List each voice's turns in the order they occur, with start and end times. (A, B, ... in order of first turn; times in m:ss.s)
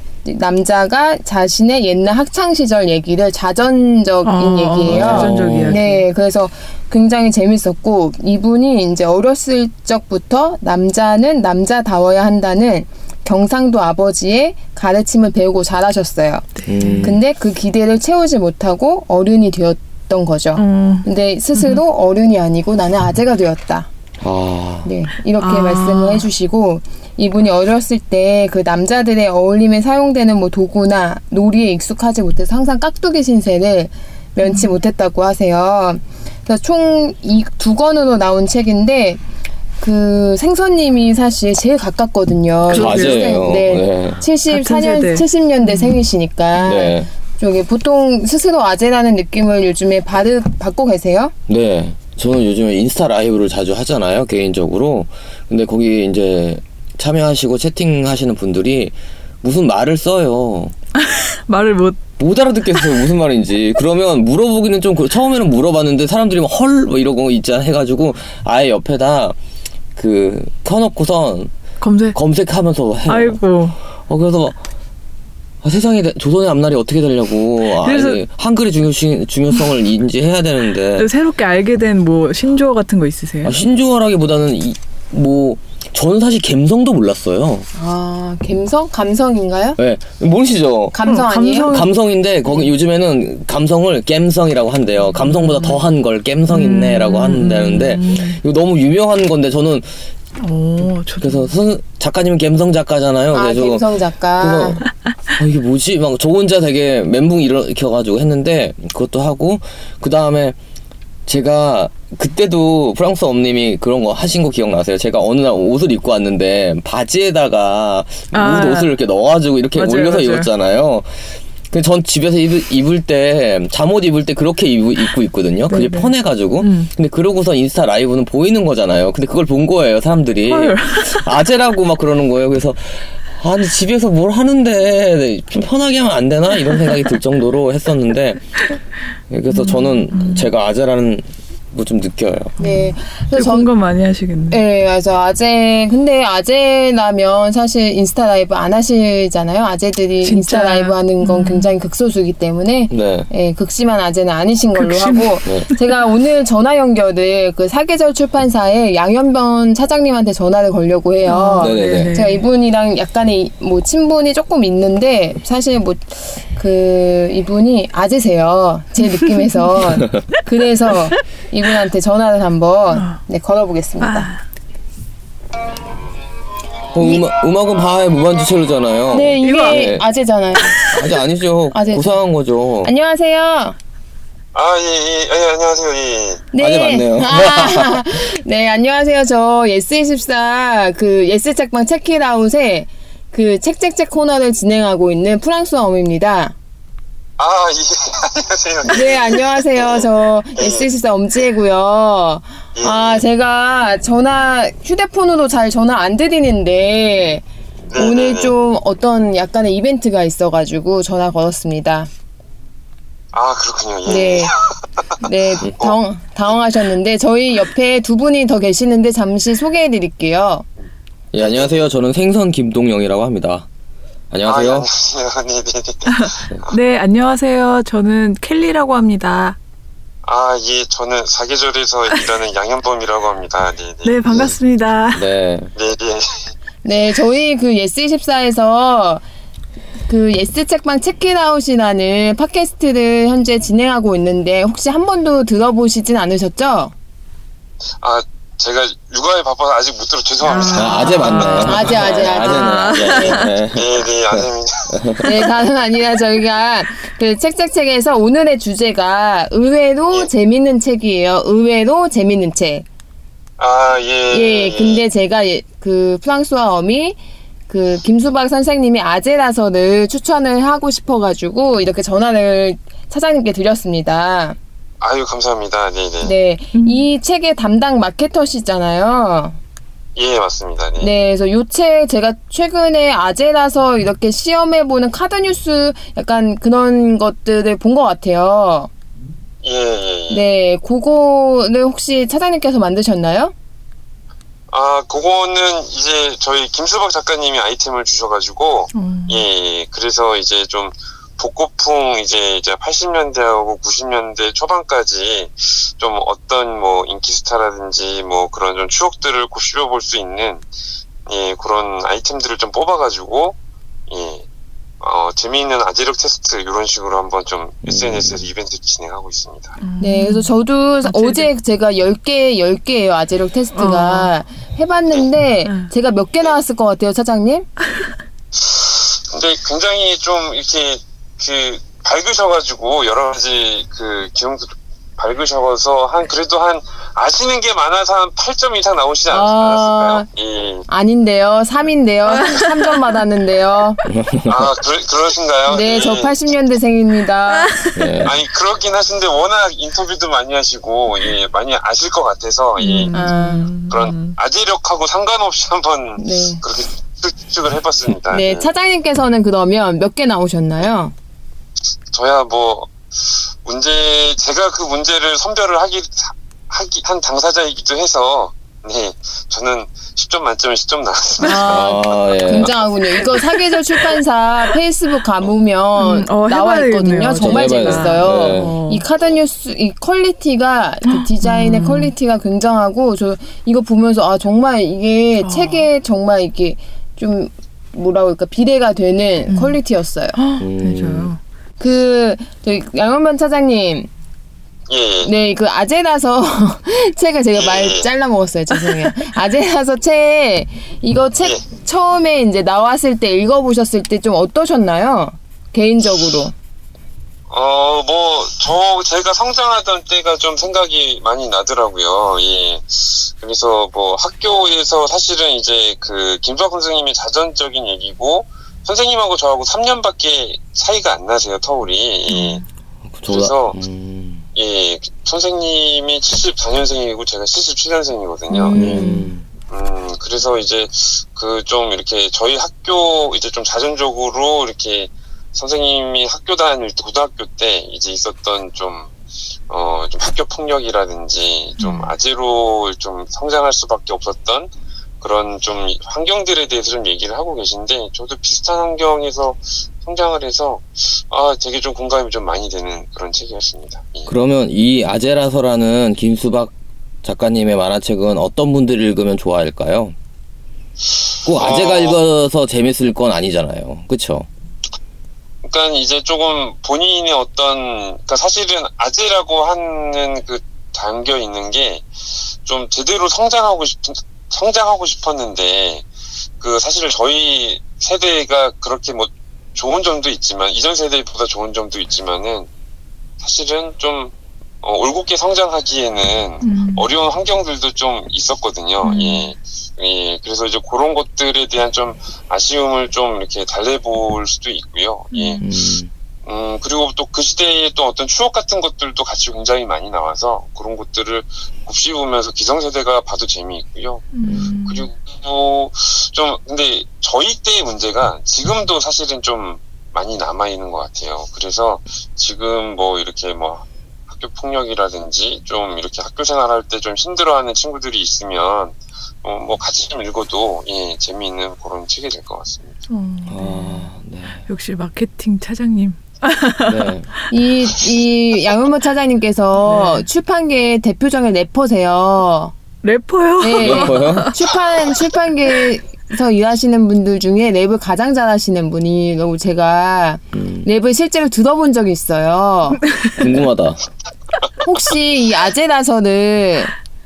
0:00.2-0:16.5 A
0:04.2-0:06.0 B
0:04.8-0:05.8 C
0:16.6-0:17.2 B
0:16.6-0:17.2 C
0:17.0-0:23.9 A
0:20.6-0:21.8 B
0:24.2-0:24.9 C
0:24.8-0:39.2 A
0:25.4-0:26.3 B
0:34.4-0:34.7 B
0:39.8-0:51.3 A
0:42.7-0:43.4 B
0:42.7-0:44.2 C
0:44.5-0:46.0 B
0:46.6-0:47.1 C
0:51.5-1:00.7 C
1:01.0-1:02.0 B
1:02.2-1:09.4 C
1:10.0-1:11.5 C
1:11.8-1:12.2 B
1:12.1-1:13.4 C
1:13.1-1:13.8 B
1:14.1-1:14.6 C
1:15.6-1:21.1 C
1:17.8-1:18.2 B
1:21.0-1:23.5 B
1:23.4-1:27.7 C
1:27.7-1:29.8 A
1:29.8-1:31.0 C
1:30.9-1:31.8 A
1:31.0-1:31.9 B
1:31.6-1:40.1 C
1:35.3-1:35.8 B
1:36.5-1:38.4 B
1:40.4-1:41.5 B
1:41.2-1:50.6 C
1:43.3-1:44.8 A
1:51.2-2:18.6 C
1:58.3-1:58.9 B
1:59.8-2:00.5 B
2:05.7-2:06.9 B
2:10.5-2:11.3 B
2:19.3-2:22.5 C
2:19.5-2:20.5 B
2:22.6-2:24.6 B
2:22.6-2:23.7 A
2:24.5-2:54.3 A
2:30.2-2:31.7 B
2:32.9-2:33.3 C
2:34.8-2:35.7 B
2:41.2-2:42.4 B
2:41.6-2:42.2 C
2:49.0-2:49.4 B
2:52.9-2:53.2 B
2:54.0-2:54.4 B
2:56.9-3:00.0 C
2:57.0-2:57.2 A
2:59.1-3:00.9 A
2:59.4-2:59.9 B
3:00.6-3:00.9 B
3:00.9-3:02.9 C
3:01.7-3:02.2 A
3:02.8-3:03.8 A
3:04.5-3:06.5 D
3:06.5-3:16.5 A
3:06.6-3:08.0 C
3:17.4-3:20.0 D
3:18.9-3:27.4 A
3:20.6-3:20.9 D
3:22.8-3:23.2 D
3:27.9-3:28.5 D
3:27.9-3:32.1 A
3:33.3-3:34.6 D
3:34.0-3:34.5 A
3:35.2-3:40.6 A
3:41.3-3:43.6 C
3:41.4-3:41.7 D
3:44.3-3:44.9 C
3:44.4-3:46.8 D
3:46.1-3:49.6 B
3:50.2-3:54.2 D
3:54.0-3:55.2 B
3:54.3-3:54.6 C
3:55.1-3:55.7 C
3:55.7-3:56.5 D
3:56.8-3:59.2 A
4:00.1-4:06.9 A
4:08.0-4:12.2 D
4:10.4-4:13.5 B
4:10.7-4:15.3 C
4:11.3-4:13.4 A
4:13.7-4:15.2 D
4:15.2-4:22.8 A
4:23.6-4:25.0 D
4:24.3-4:27.2 A
4:27.7-4:34.6 A
4:35.0-4:36.3 D
4:36.2-4:39.6 A
4:36.7-4:37.1 B
4:40.2-4:41.1 D
4:41.0-4:48.9 A
4:49.6-4:50.4 D
4:50.3-4:53.5 A
4:54.7-5:10.6 D
4:58.9-4:59.4 B
5:11.2-5:13.6 D
5:14.1-5:14.4 D
5:15.0-5:19.8 D
5:17.8-5:18.4 C
5:19.8-5:20.5 B
5:20.0-5:27.7 A
5:21.0-5:21.5 B
5:23.7-5:24.3 B
5:28.5-5:40.8 D
5:39.3-5:40.2 A
5:40.9-5:44.0 A
5:44.1-5:44.7 C
5:44.5-5:46.3 D
5:45.7-5:47.8 A
5:47.9-5:48.3 C
5:48.2-5:53.2 D
5:52.8-5:54.4 B
5:53.1-5:53.7 A
5:53.9-5:58.6 D
5:56.2-5:56.6 A
5:58.3-6:01.1 A
6:02.1-6:11.8 D
6:11.4-6:11.8 B
6:11.4-6:30.4 A
6:11.7-6:12.7 C
6:16.0-6:19.0 B
6:17.4-6:18.8 C
6:21.1-6:22.1 B
6:25.4-6:25.9 B
6:29.5-6:29.8 B
6:30.4-6:31.4 B
6:30.6-6:31.3 C
6:31.8-6:34.1 A
6:34.9-6:35.3 D
6:35.2-6:46.5 A
6:37.6-6:38.0 D
6:47.5-7:02.6 D
7:02.3-7:02.6 B
7:03.1-7:04.4 C
7:03.3-7:03.8 D
7:04.5-7:09.0 D
7:08.5-7:09.3 A
7:08.7-7:09.4 C
7:09.7-7:19.1 D
7:19.7-7:34.3 D
7:21.8-7:22.1 B
7:34.3-7:36.7 C
7:37.2-7:40.1 C
7:41.4-7:44.5 C
7:41.5-7:42.2 D
7:45.6-7:52.1 D
7:52.6-7:56.0 D
7:56.6-8:02.7 D
8:03.4-8:15.6 D
8:06.6-8:07.0 B
8:09.0-8:09.5 B
8:15.3-8:15.7 B
8:15.6-8:16.1 C
8:16.4-8:43.0 D
8:24.3-8:25.1 B
8:43.1-8:44.1 B
8:43.5-8:44.6 C
8:44.7-8:47.0 B
8:46.8-8:47.3 C
8:47.5-8:52.7 A
8:49.8-8:50.2 B
8:53.0-8:54.6 B
8:53.6-9:03.0 A
8:53.7-8:54.6 C
9:00.5-9:00.8 C
9:03.2-9:03.5 B
9:03.4-9:04.0 C
9:04.8-9:06.9 A